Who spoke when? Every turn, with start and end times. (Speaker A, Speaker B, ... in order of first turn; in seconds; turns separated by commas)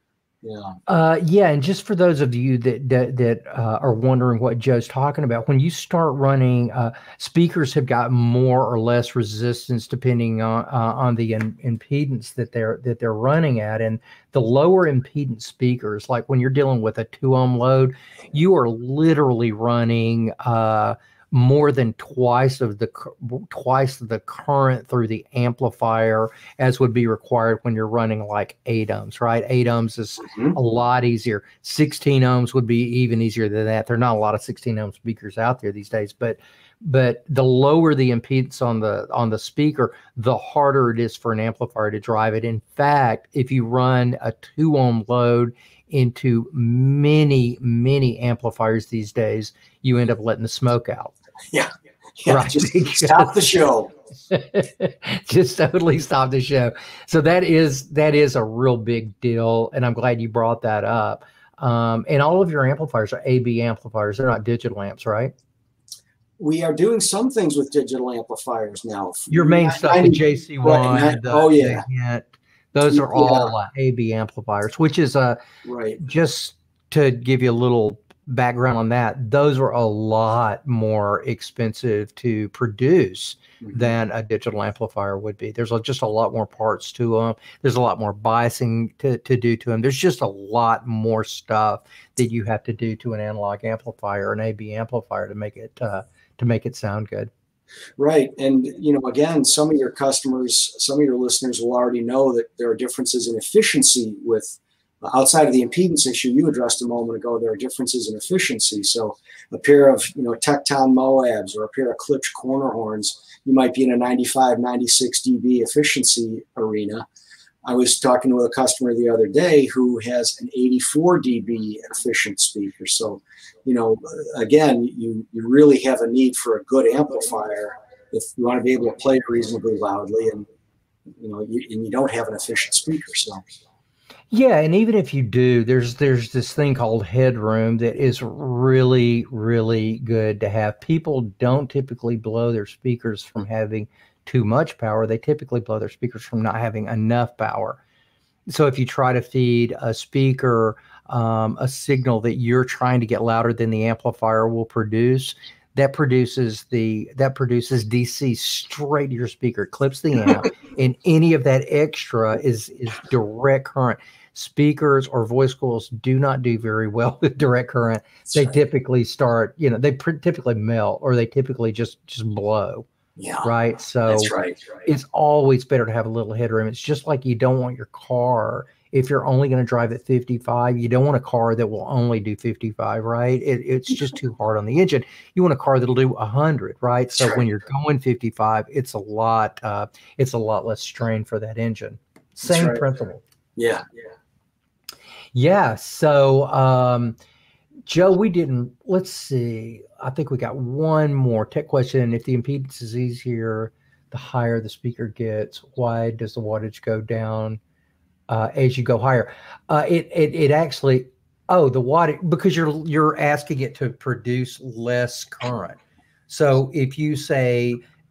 Speaker A: 0.4-0.8, Speaker B: 0.9-51.1, Speaker A: 30.2-30.6, Speaker A: 51.5-53.9, Speaker B: 52.3-53.3, Speaker B: 54.3-65.3, Speaker A: 66.4-71.8, Speaker B: 69.3-75.4, Speaker A: 72.9-73.5, Speaker A: 75.6-76.0, Speaker B: 76.0-97.3, Speaker A: 83.6-83.9, Speaker A: 98.0-117.0, Speaker A: 117.6-130.5, Speaker A: 131.2-133.5, Speaker B: 134.3-147.8, Speaker B: 148.5-172.9, Speaker A: 173.2-173.5, Speaker B: 173.4-193.2, Speaker A: 174.1-174.6, Speaker A: 192.5-192.8, Speaker A: 193.6-193.8, Speaker B: 195.3-197.2, Speaker B: 197.9-207.6, Speaker B: 208.3-217.8